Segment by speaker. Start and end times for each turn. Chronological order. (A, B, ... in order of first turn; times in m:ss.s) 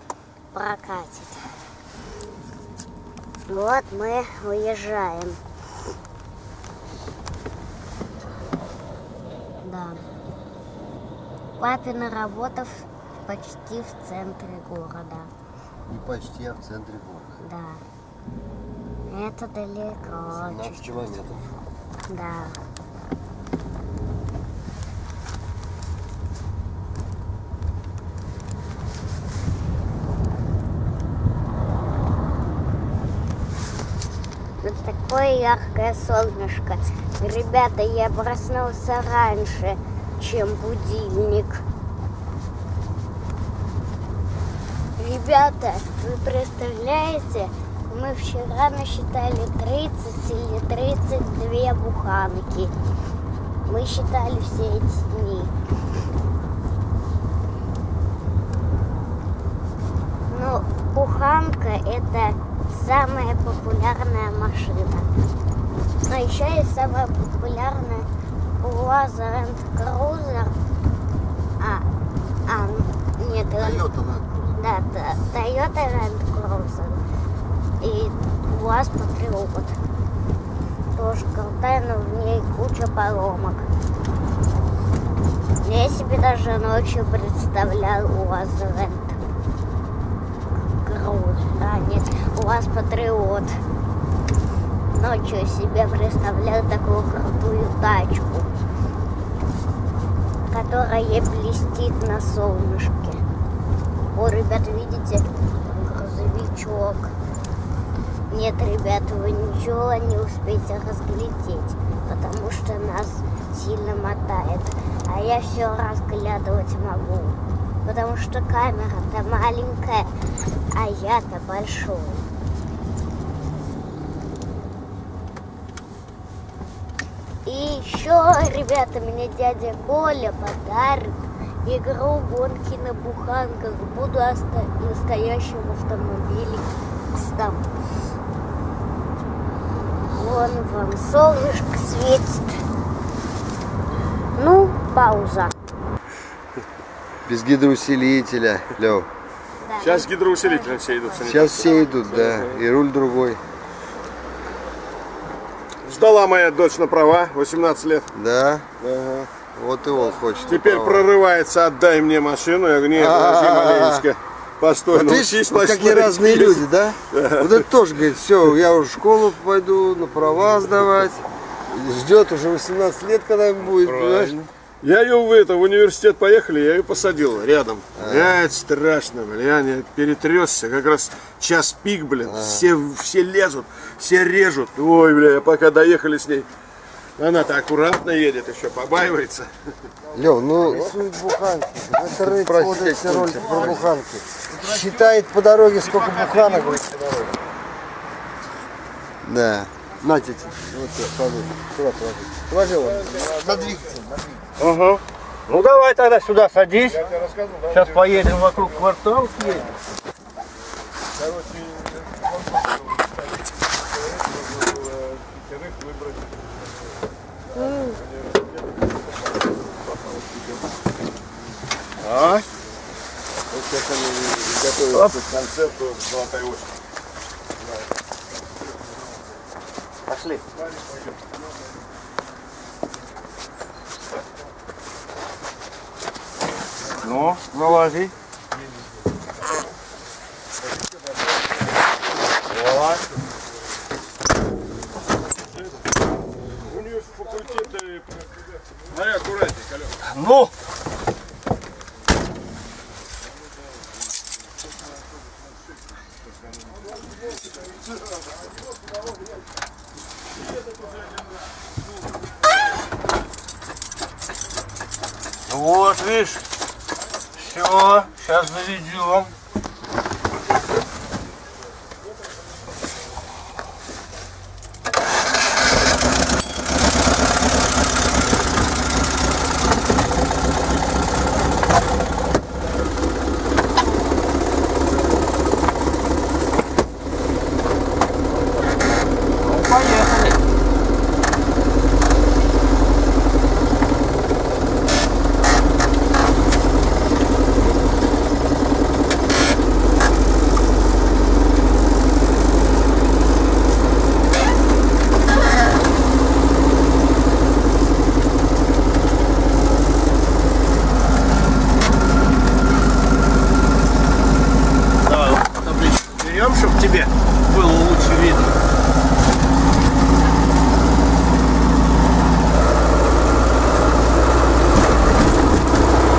0:00.5-0:01.5 A
0:03.5-0:05.4 A
0:09.6-0:10.0 A
0:11.6-0:15.3 A
0:15.9-0:17.4 B
0:17.4-0:17.8 A
0:19.1-0:21.2 A
0:20.3-0:21.5 B
0:22.1-0:22.6 A
0:34.6-0:41.6 A
0:45.0-0:52.7 A
0:53.7-0:55.5 A
1:00.3-1:05.1 A
1:06.1-1:08.1 A
1:08.6-1:10.6 A
1:11.6-1:11.9 A
1:12.5-1:14.0 A
1:13.6-1:14.6 B
1:14.5-1:17.0 A
1:17.8-1:19.8 A
1:20.9-1:23.7 A
1:25.6-1:29.2 A
1:30.5-1:33.6 A
1:34.9-1:38.5 A
1:40.5-1:43.2 A
1:44.1-1:47.1 A
1:48.3-2:00.1 A
2:00.7-2:02.3 A
2:07.5-2:17.7 A
2:20.1-2:22.6 A
2:24.3-2:25.5 A
2:27.3-2:29.1 B
2:29.6-2:32.1 A
2:29.8-2:32.6 C
2:31.2-2:33.4 B
2:35.8-2:38.1 C
2:38.1-2:38.7 B
2:38.8-2:39.3 C
2:39.5-2:41.1 B
2:40.4-2:47.6 C
2:42.9-2:44.1 B
2:44.9-2:54.4 B
2:53.6-2:54.5 D
2:54.8-3:06.5 C
2:58.0-2:58.4 B
3:02.2-3:02.7 B
3:07.2-3:09.9 C
3:10.1-3:16.5 B
3:10.6-3:11.0 C
3:12.3-3:13.9 C
3:13.1-3:13.7 D
3:14.5-3:15.2 C
3:15.8-3:17.4 C
3:19.2-3:24.2 B
3:22.7-3:24.0 C
3:24.6-3:27.1 D
3:26.9-3:28.9 C
3:27.7-3:29.7 D
3:31.1-3:36.5 C
3:37.5-3:38.0 A
3:37.9-3:38.8 C
3:39.7-3:40.6 C
3:42.0-3:42.5 D
3:43.6-3:46.8 C
3:43.7-3:44.5 B
3:50.1-3:50.4 D
3:56.9-3:58.1 D
4:02.5-4:03.0 D
4:06.6-4:10.0 C
4:10.0-4:10.5 D
4:25.5-4:26.4 D
4:27.4-4:29.3 D
4:49.5-4:50.4 D
5:15.0-5:18.6 D